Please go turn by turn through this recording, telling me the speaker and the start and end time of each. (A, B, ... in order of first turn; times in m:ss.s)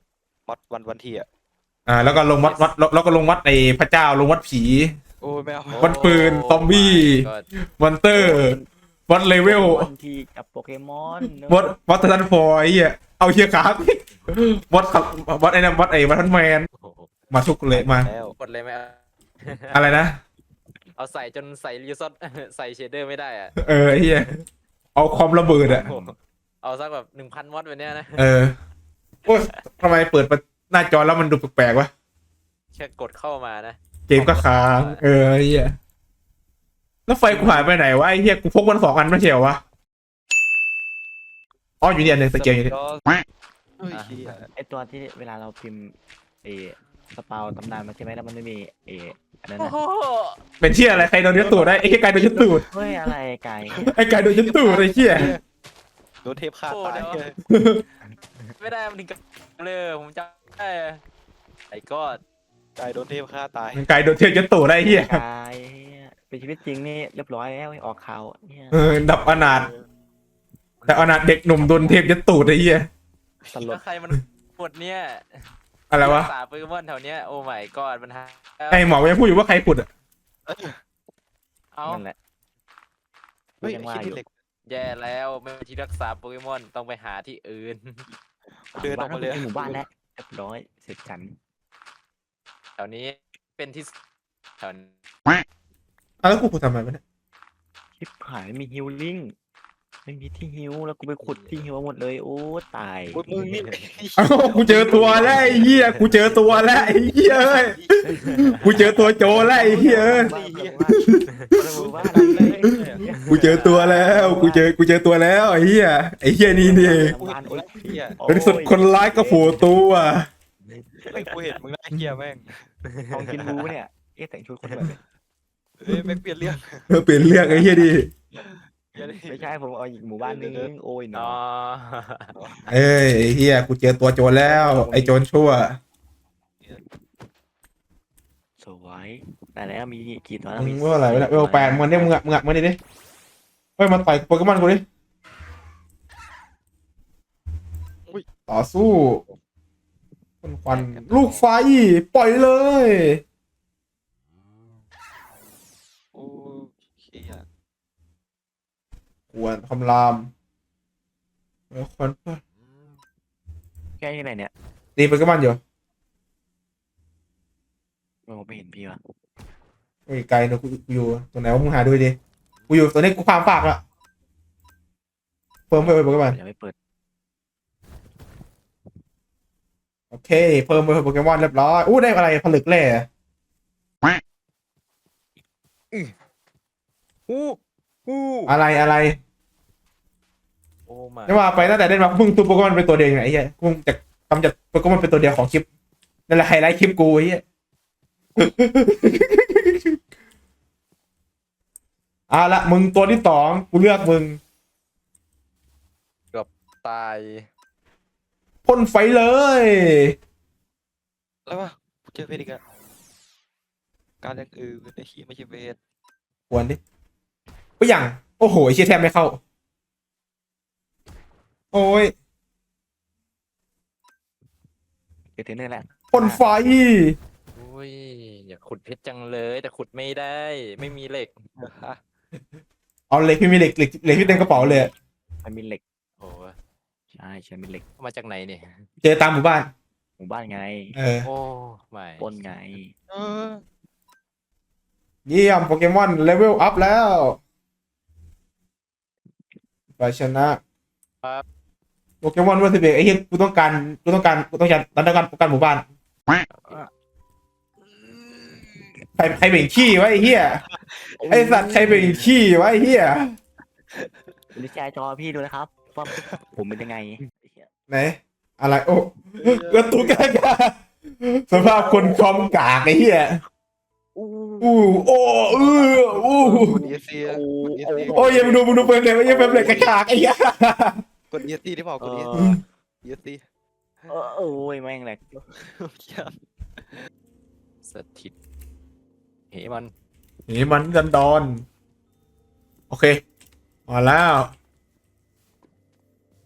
0:00.5-0:01.2 A
0:01.9-0:05.0 B
0:02.4-0:02.7 C
0:05.2-0:06.0 A
0:05.7-0:07.4 C
0:05.8-0:08.6 B
0:08.1-0:08.7 D
0:09.1-0:09.9 B
0:09.4-0:11.7 D
0:11.2-0:16.7 B
0:16.7-0:17.1 C
0:17.3-0:18.1 B
0:17.7-0:18.4 A
0:18.3-0:19.9 C
0:19.7-0:20.2 B
0:20.9-0:23.5 C
0:23.6-0:24.4 B
0:25.0-0:25.8 B
0:25.6-0:26.1 D
0:25.6-0:28.3 C
0:28.2-0:28.6 B
0:29.2-0:31.9 B
0:32.7-0:35.0 C
0:34.1-0:35.8 B
0:37.1-0:39.6 B
0:37.3-0:37.7 D
0:41.8-0:42.7 B
0:42.0-0:43.0 A
0:43.8-0:44.5 A
0:43.9-0:44.3 C
0:44.6-0:49.8 D
0:49.6-0:50.4 C
0:50.6-0:52.6 B
0:52.2-0:54.0 D
0:53.7-0:55.4 A
0:53.8-0:55.3 B
0:54.6-0:55.2 D
0:56.2-0:57.4 A
0:56.6-0:57.2 C
0:57.5-0:57.8 B
0:58.6-1:01.0 C
1:01.7-1:02.2 C
1:02.8-1:03.8 A
1:03.7-1:05.2 B
1:04.8-1:08.8 D
1:08.7-1:09.7 B
1:10.9-1:12.9 B
1:11.6-1:12.1 D
1:13.5-1:15.5 C
1:15.9-1:16.3 B
1:16.0-1:19.0 C
1:18.7-1:19.9 B
1:20.5-1:20.8 A
1:21.7-1:22.0 C
1:21.8-1:22.2 D
1:23.6-1:24.2 D
1:23.6-1:24.3 A
1:24.7-1:28.0 C
1:28.5-1:29.8 A
1:28.7-1:31.4 D
1:32.8-1:33.9 C
1:34.6-1:34.9 C
1:36.2-1:37.0 B
1:38.0-1:39.3 D
1:40.0-1:43.6 D
1:41.2-1:41.6 C
1:43.1-1:45.9 A
1:43.5-1:43.8 C
1:44.2-1:48.0 B
1:44.6-1:46.6 D
1:46.4-1:48.0 A
1:48.0-1:54.7 D
1:48.5-1:50.3 B
1:49.2-1:50.9 A
1:51.8-1:53.0 A
1:52.1-1:52.6 B
1:53.2-1:57.1 B
1:53.3-1:54.0 C
1:56.6-1:59.7 D
1:56.6-1:58.2 A
1:58.3-2:00.3 B
2:00.7-2:01.1 D
2:01.1-2:02.6 A
2:02.8-2:03.7 C
2:03.1-2:05.0 D
2:05.8-2:06.9 A
2:05.9-2:06.2 B
2:06.9-2:08.1 B
2:07.2-2:07.9 D
2:08.3-2:09.5 A
2:09.0-2:11.4 D
2:10.2-2:10.7 A
2:11.1-2:12.3 C
2:12.4-2:12.7 A
2:12.7-2:15.8 B
2:14.4-2:15.2 D
2:18.6-2:22.1 D
2:20.6-2:22.8 B
2:23.8-2:24.8 B
2:28.5-2:29.2 B
2:30.4-2:33.2 B
2:30.7-2:31.4 A
2:36.1-2:37.4 A
2:39.3-2:40.3 B
2:41.7-2:42.4 B
2:44.0-2:44.5 D
2:45.0-2:45.6 B
2:48.3-2:49.0 D
2:50.1-2:52.2 B
2:52.7-2:53.8 B
2:55.7-2:56.4 B
2:55.8-2:56.7 D
3:00.1-3:03.1 B
3:07.3-3:08.3 D
3:08.4-3:09.2 B
3:10.9-3:11.8 C
3:11.3-3:15.6 B
3:16.3-3:17.4 B
3:18.4-3:20.0 B
3:22.3-3:24.4 B
3:26.3-3:27.5 C
3:28.6-3:30.1 B
3:31.5-3:32.6 A
3:34.2-3:35.8 A
3:36.5-3:36.8 B
3:37.8-3:39.4 B
3:41.7-3:42.1 B
3:45.4-3:46.4 D
3:46.1-3:47.2 B
3:47.5-3:51.3 C
3:51.6-3:52.0 A
3:53.1-3:54.9 B
3:54.0-3:54.9 D
3:55.4-3:55.8 D
3:56.2-3:56.6 C
3:57.2-3:57.8 D
3:58.0-3:58.8 C
3:59.0-3:59.7 B
4:00.2-4:00.9 D
4:00.9-4:01.3 B
4:01.2-4:02.3 C
4:02.2-4:02.9 D
4:03.1-4:03.6 A
4:05.2-4:07.4 B
4:10.0-4:10.6 B
4:12.2-4:15.8 B
4:19.2-4:20.6 B
4:20.7-4:21.2 A
4:21.2-4:22.3 D
4:21.3-4:23.3 B
4:23.9-4:24.3 A
4:24.5-4:27.7 D
4:27.9-4:33.4 B
4:29.4-4:30.3 A
4:31.5-4:32.2 D
4:34.1-4:35.0 D
4:34.6-4:36.8 B
4:35.5-4:40.0 D
4:36.3-4:38.6 A
4:38.1-4:41.0 B
4:41.3-4:42.5 A
4:42.0-4:42.6 D
4:42.3-4:42.6 B
4:43.0-4:43.4 A
4:44.1-4:45.4 D
4:45.6-4:46.3 A
4:47.8-4:48.3 C
4:49.5-4:49.9 C
4:50.5-4:51.6 B
4:52.9-4:53.2 B
4:53.9-4:54.5 B